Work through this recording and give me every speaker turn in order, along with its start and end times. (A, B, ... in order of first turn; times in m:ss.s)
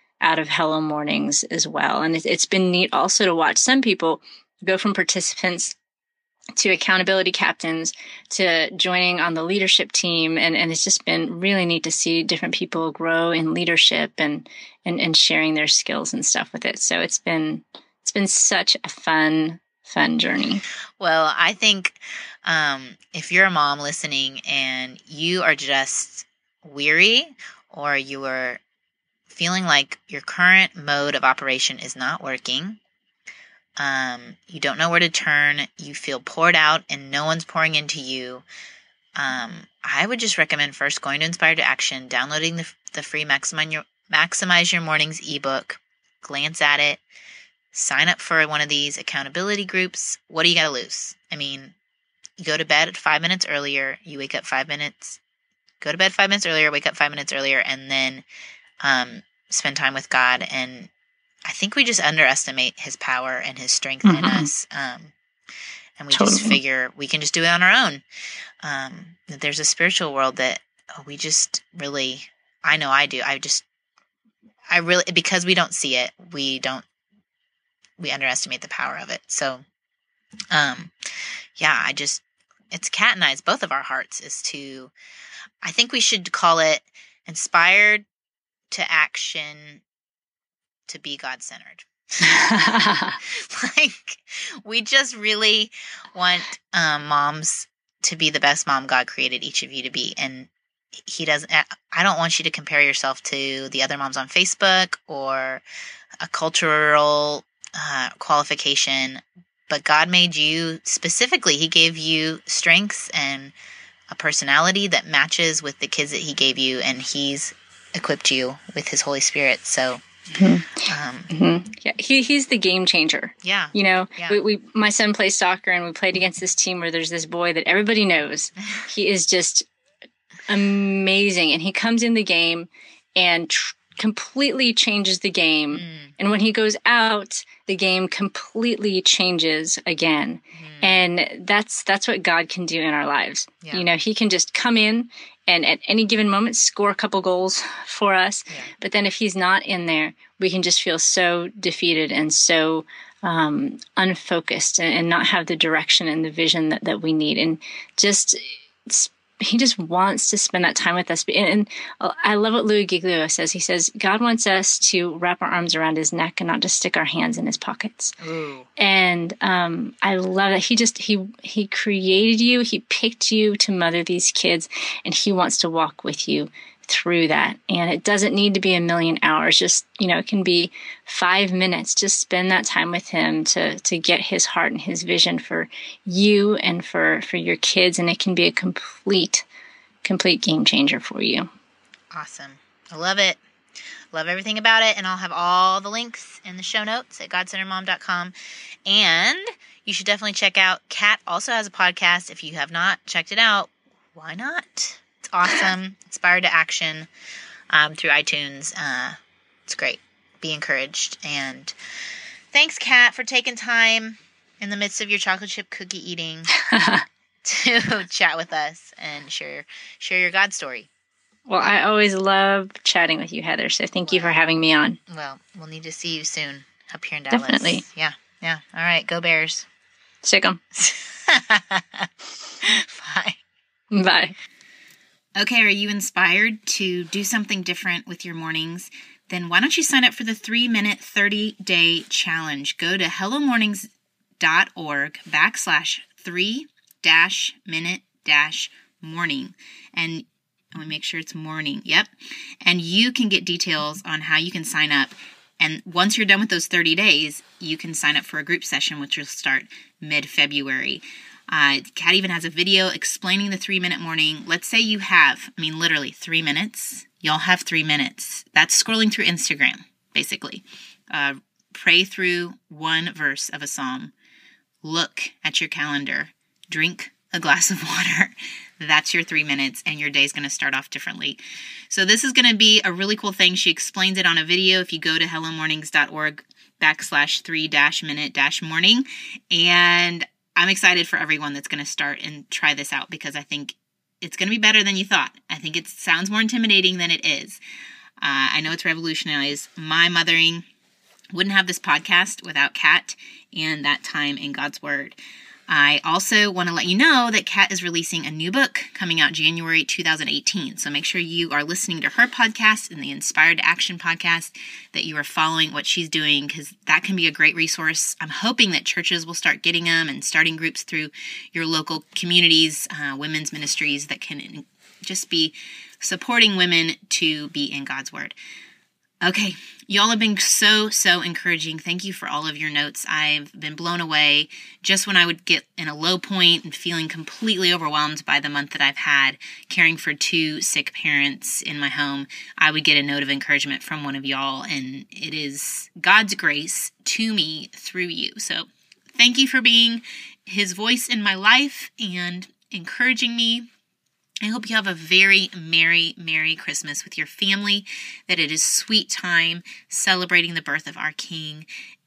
0:00.2-0:05.8 A
0:06.6-0:20.6 A
0:21.0-0:28.6 B
0:29.3-0:32.8 B
0:33.8-0:38.4 B
0:39.2-0:47.0 B
0:47.7-0:51.8 B
0:52.4-0:55.2 B
0:55.8-0:58.2 B
0:58.8-1:00.9 B
1:01.4-1:05.1 B
1:04.0-1:04.5 A
1:06.0-1:08.0 B
1:06.1-1:06.6 A
1:08.6-1:13.6 B
1:14.7-1:16.8 B
1:18.0-1:19.6 B
1:20.5-1:20.9 B
1:21.6-1:24.9 B
1:25.6-1:28.0 B
1:28.7-1:29.8 B
1:30.9-1:32.6 B
1:32.2-1:33.2 A
1:33.2-1:40.5 B
1:41.0-1:45.6 B
1:46.2-1:53.5 B
1:54.1-2:00.1 B
2:00.4-2:09.7 A
2:00.8-2:01.3 B
2:03.4-2:04.4 B
2:10.5-2:48.2 A
2:15.7-2:16.1 B
2:20.6-2:21.0 B
2:48.2-2:48.7 B
2:48.8-3:09.4 A
3:10.0-3:11.5 A
3:12.1-3:13.4 B
3:14.1-3:18.3 B
3:18.8-3:27.1 B
3:27.7-3:31.7 B
3:32.5-3:36.5 B
3:36.5-3:37.0 A
3:37.4-3:40.9 B
3:41.5-3:45.0 A
3:44.1-3:44.4 B
3:45.1-3:49.7 B
3:47.3-3:47.8 A
3:50.2-3:50.6 A
3:50.8-3:52.1 B
3:52.6-3:53.4 B
3:53.9-3:54.4 A
3:55.4-4:03.9 B
4:04.4-4:34.1 B
4:34.8-4:57.6 B
4:58.2-5:00.6 B
5:01.3-5:05.2 B
5:05.7-5:28.4 B
5:29.2-5:53.7 B
5:54.4-6:01.7 B